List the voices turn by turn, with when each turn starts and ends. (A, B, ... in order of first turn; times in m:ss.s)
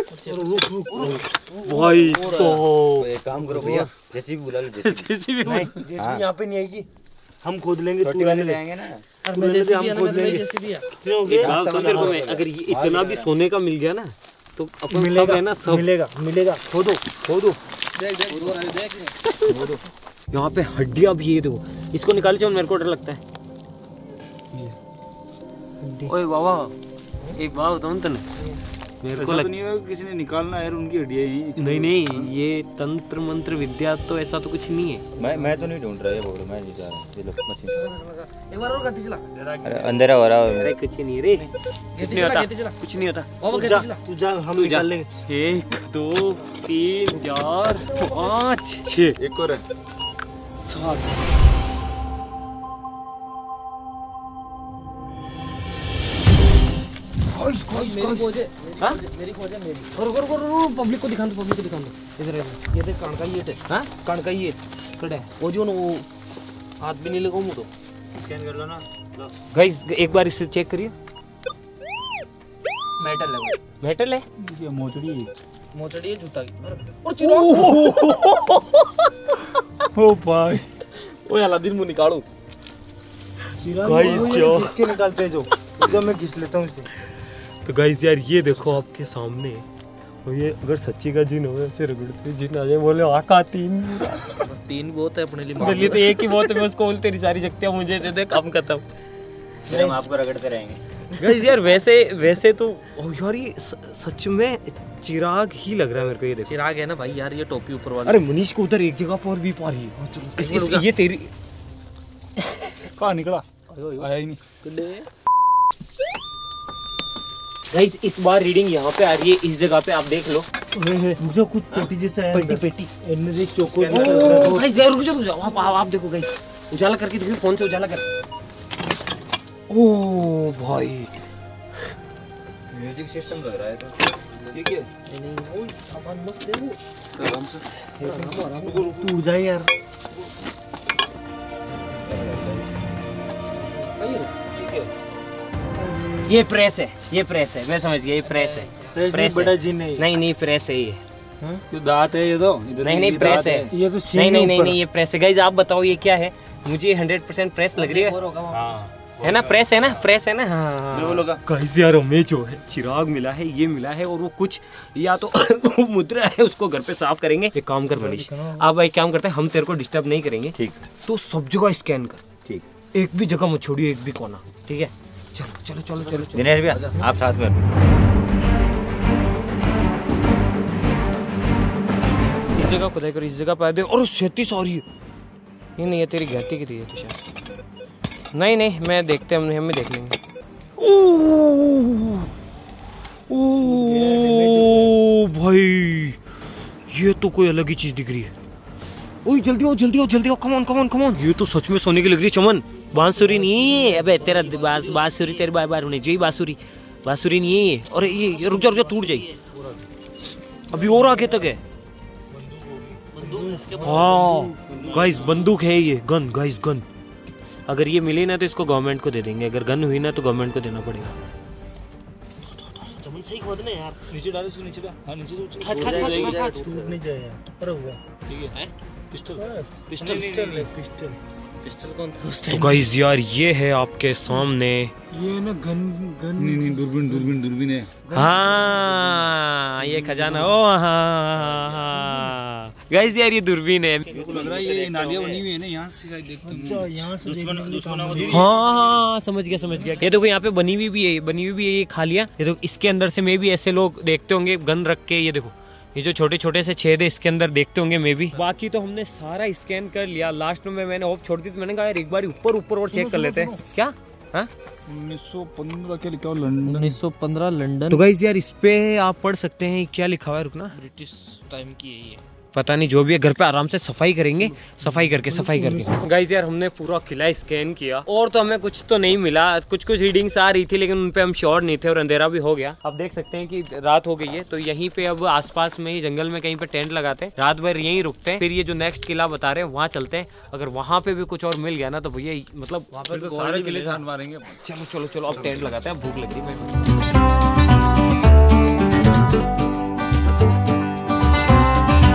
0:00.1-0:02.6 A
0:00.3-0:01.2 B
0:01.0-0:03.9 C
0:02.2-0:05.1 D
0:04.8-0:05.8 C
0:05.5-0:06.9 B
0:06.0-0:06.3 D
0:07.4-0:08.6 B
0:08.0-0:09.0 D
0:08.0-0:08.3 C
0:09.2-0:10.9 A
0:09.3-0:12.2 B
0:11.3-0:13.3 D
0:11.3-0:15.9 C
0:14.9-0:17.0 B
0:18.0-0:18.8 E
0:18.3-0:19.1 A
0:19.5-0:19.8 E
0:20.3-0:23.2 C
0:25.8-0:26.1 B
0:26.1-0:26.7 C
0:27.3-0:28.2 C
0:29.0-0:29.5 C
0:29.2-0:32.3 E
0:31.6-0:35.0 C
0:35.2-0:37.9 D
0:35.2-0:35.5 A
0:37.7-0:39.3 A
0:39.4-0:40.0 E
0:39.6-0:40.7 D
0:40.5-0:43.9 C
0:42.0-0:42.8 A
0:43.4-0:44.0 A
0:44.1-0:45.0 B
0:44.5-0:44.9 D
0:44.5-0:49.2 C
0:47.9-0:48.3 A
0:49.2-0:49.6 B
0:50.7-0:51.1 C
0:57.4-0:57.9 E
0:57.7-1:06.1 A
1:00.0-1:02.2 C
1:06.8-1:07.7 A
1:08.2-1:09.3 D
1:09.5-1:11.0 C
1:13.0-1:13.5 A
1:13.8-1:14.2 C
1:14.4-1:15.3 E
1:15.7-1:17.8 A
1:17.1-1:20.6 C
1:21.2-1:22.3 C
1:23.6-1:26.9 B
1:23.8-1:24.9 C
1:27.6-1:29.6 C
1:30.2-1:34.4 C
1:34.4-1:36.2 A
1:35.6-1:38.8 C
1:39.7-1:40.8 D
1:41.2-1:46.6 C
1:46.5-1:48.2 A
1:48.0-1:51.3 C
1:50.0-1:50.9 A
1:52.9-1:53.5 E
1:53.7-1:54.1 A
1:54.0-1:54.4 E
1:54.6-1:55.1 A
1:57.7-2:00.5 C
2:00.8-2:04.6 B
2:02.3-2:02.9 A
2:03.7-2:04.7 D
2:03.9-2:08.0 C
2:03.9-2:04.6 A
2:09.7-2:11.1 C
2:12.7-2:14.6 D
2:14.5-2:14.9 E
2:15.1-2:16.8 A
2:17.2-2:17.6 E
2:18.0-2:19.1 A
2:18.1-2:19.7 B
2:18.6-2:19.0 E
2:22.1-2:22.7 D
2:23.9-2:24.3 A
2:24.6-2:24.9 E
2:26.3-2:31.0 C
2:28.3-2:28.9 A
2:29.0-2:30.0 B
2:31.7-2:33.7 E
2:32.8-2:38.2 C
2:33.7-2:34.8 B
2:37.8-2:38.6 A
2:38.5-2:39.9 D
2:39.2-2:52.2 C
2:40.9-2:41.4 D
2:47.9-2:48.6 A
2:50.6-2:50.8 D
2:52.9-2:56.5 C
2:56.3-2:57.7 D
2:56.4-2:57.0 B
3:02.5-3:04.8 C
3:05.8-3:07.2 C
3:08.3-3:10.2 C
3:10.8-3:12.3 C
3:13.3-3:16.2 C
3:13.6-3:14.9 E
3:16.9-3:18.3 C
3:19.2-3:29.4 C
3:29.3-3:29.8 B
3:30.7-3:31.6 C
3:33.2-3:34.3 B
3:33.2-3:34.1 A
3:33.8-3:36.8 C
3:34.1-3:35.5 E
3:37.7-3:41.2 C
3:42.8-3:44.0 C
3:44.1-3:46.4 E
3:45.6-3:46.4 C
3:45.6-3:47.0 D
3:46.3-3:48.0 B
3:48.3-3:48.6 E
3:49.1-3:49.4 E
3:49.4-3:51.2 B
3:49.9-3:50.6 C
3:50.0-3:50.7 E
3:52.5-3:54.9 C
3:55.1-3:57.3 B
3:56.4-3:58.0 E
3:58.1-3:59.2 B
3:58.1-4:05.4 C
3:59.8-4:00.6 B
4:01.5-4:02.1 E
4:04.1-4:08.4 E
4:04.1-4:05.4 D
4:06.4-4:08.5 B
4:07.2-4:08.5 D
4:08.3-4:24.5 C
4:22.9-4:23.6 E
4:24.9-4:27.0 E
4:26.6-4:28.0 A
4:27.9-4:30.8 C
4:30.8-4:32.2 A
4:32.5-4:54.0 C
4:34.7-4:36.0 E
4:53.0-4:54.6 E
4:54.6-4:56.7 C
4:55.3-4:55.7 E